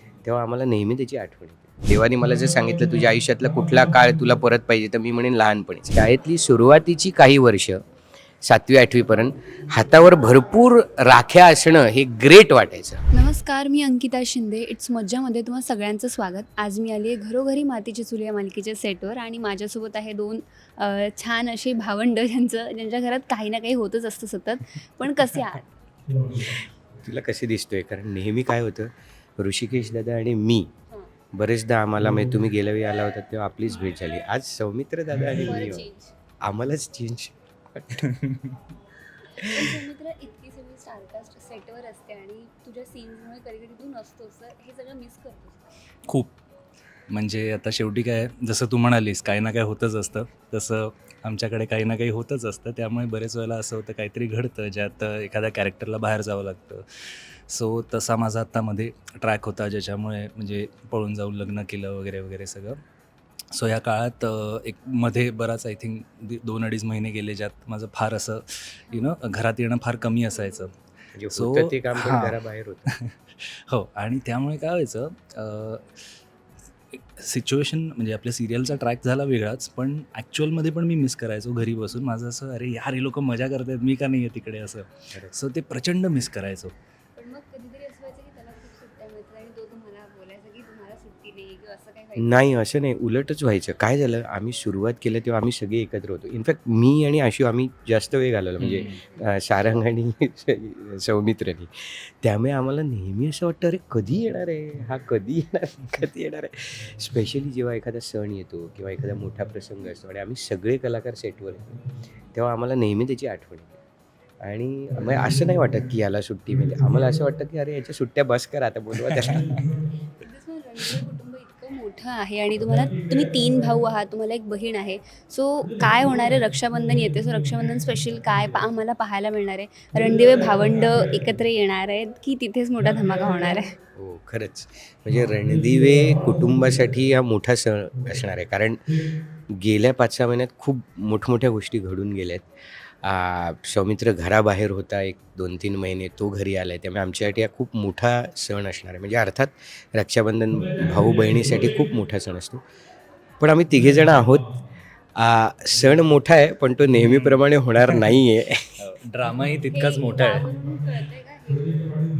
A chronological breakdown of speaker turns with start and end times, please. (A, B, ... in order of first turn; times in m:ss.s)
0:00.2-0:07.8 A
0:08.4-0:13.0 A
0:13.1-0:25.7 B
0:26.3-0:30.7 A
0:31.3-0:35.8 A
0:35.4-0:36.1 B
0:36.4-0:38.0 A
0:38.1-0:38.5 C
0:39.4-0:45.7 B
0:46.0-0:46.3 C
0:47.1-1:02.8 C
1:03.5-1:10.7 C
1:08.9-1:09.1 B
1:11.1-1:12.9 A
1:11.3-1:12.4 C
1:12.9-1:16.0 C
1:16.9-1:26.7 C
1:27.2-1:32.4 B
1:32.2-1:51.8 A
1:38.6-1:38.9 C
1:38.7-1:39.3 B
1:52.3-1:53.8 A
1:54.4-1:59.5 A
1:59.2-1:59.6 C
2:00.2-2:13.7 B
2:14.0-2:22.5 A
2:23.0-2:32.6 A
2:33.4-2:34.6 A
2:35.2-2:38.7 A
2:37.1-2:37.4 C
2:38.8-2:40.5 C
2:39.7-2:42.0 B